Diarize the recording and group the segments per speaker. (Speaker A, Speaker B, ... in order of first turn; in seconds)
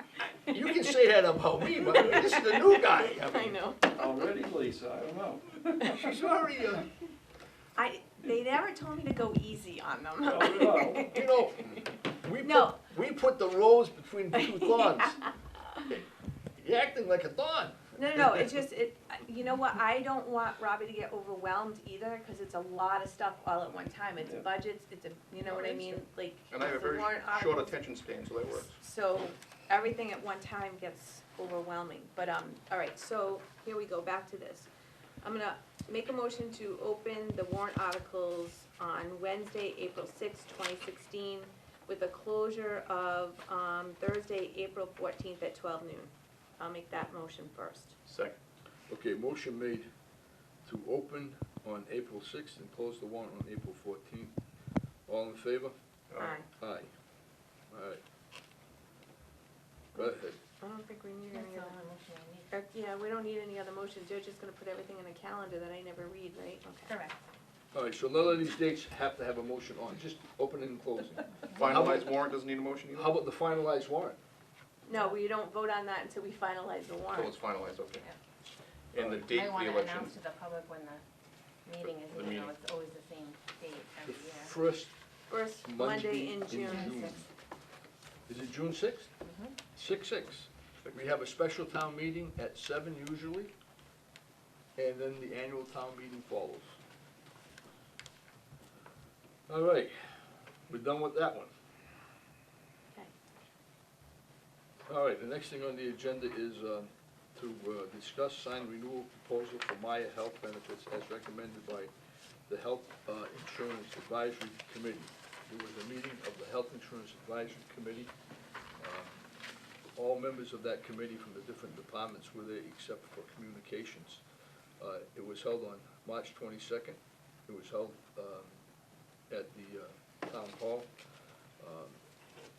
Speaker A: 0.5-3.6, 5.8-6.9, 11.1-15.2, 16.6-18.4, 48.9-49.9, 50.6-54.3, 55.1-55.7, 56.5-56.9, 57.7-58.0, 59.9-60.4, 67.7-72.1, 72.9-74.2, 79.0-79.2, 84.0-84.9, 85.5-87.2, 88.3-89.1, 89.7-93.5, 94.8-96.8, 99.5-100.1, 100.7-101.5, 104.9-111.9, 112.5-118.1, 118.8-119.3, 119.9-124.2, 124.8-128.6, 129.3-130.9, 131.6-132.0
Speaker B: 0.5-0.8, 1.8-4.2, 7.8-11.7, 12.4-12.8, 14.3-15.3, 17.9-27.8, 28.7-34.7, 35.2-48.0, 56.2-56.5, 59.9-61.8, 62.5-66.9, 74.8-77.3, 85.3-87.0
Speaker C: 3.9-6.1, 10.2-11.1
Speaker D: 25.4-26.0, 61.3-62.5, 66.9-67.2, 79.3-81.0, 81.6-84.5, 86.7-87.2, 89.2-89.6
Speaker E: 26.5-28.7, 48.0-48.4, 56.1-56.4, 71.5-73.2, 77.1-78.0, 78.9-80.2, 81.8-82.5, 90.8-91.1